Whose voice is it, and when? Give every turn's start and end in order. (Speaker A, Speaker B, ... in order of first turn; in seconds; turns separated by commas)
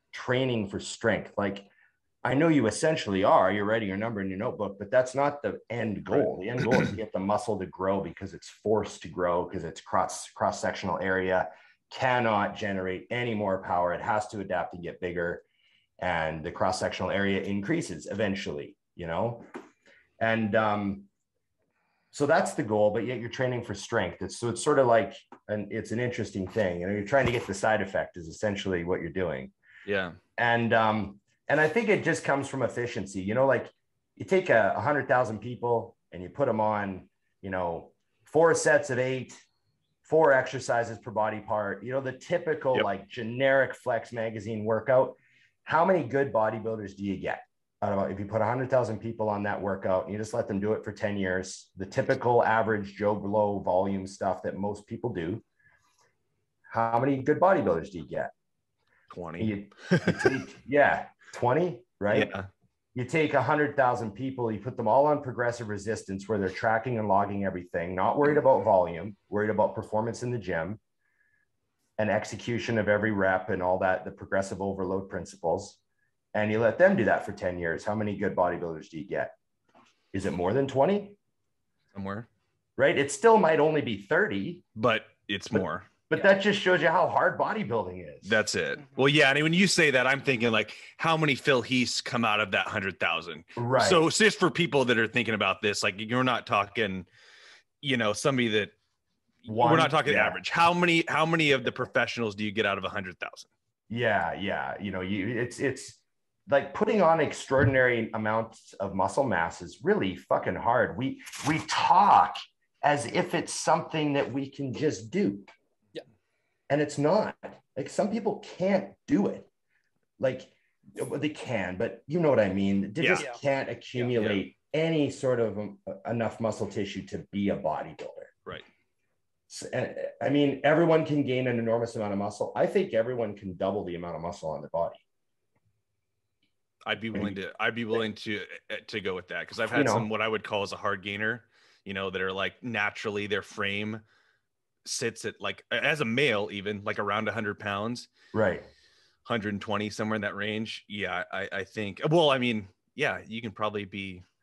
Speaker A: 0.1-1.7, Speaker A: 2.2-15.4, Speaker B: 6.1-6.9, Speaker A: 16.0-19.5, Speaker A: 20.2-21.1, Speaker A: 22.1-29.5, Speaker B: 29.9-30.2, Speaker A: 30.4-39.4, Speaker A: 40.0-55.4, Speaker A: 56.7-58.3, Speaker B: 59.1-60.4, Speaker A: 59.4-62.3, Speaker B: 62.1-62.5, Speaker A: 63.0-70.8, Speaker A: 72.0-75.8, Speaker A: 76.3-79.3, Speaker A: 80.1-81.2, Speaker B: 81.9-82.3, Speaker A: 82.8-84.6, Speaker B: 84.8-85.9, Speaker A: 86.1-88.4, Speaker B: 88.2-97.1, Speaker A: 93.6-94.1, Speaker B: 97.8-98.7, Speaker B: 99.4-103.5, Speaker A: 99.5-100.4, Speaker A: 103.9-115.5, Speaker A: 116.7-119.5, Speaker A: 120.2-128.3, Speaker B: 123.0-123.3, Speaker B: 124.0-124.4, Speaker A: 129.5-135.0, Speaker B: 136.9-144.0, Speaker A: 139.7-140.1, Speaker B: 144.8-148.1, Speaker A: 148.3-148.7, Speaker B: 149.2-154.2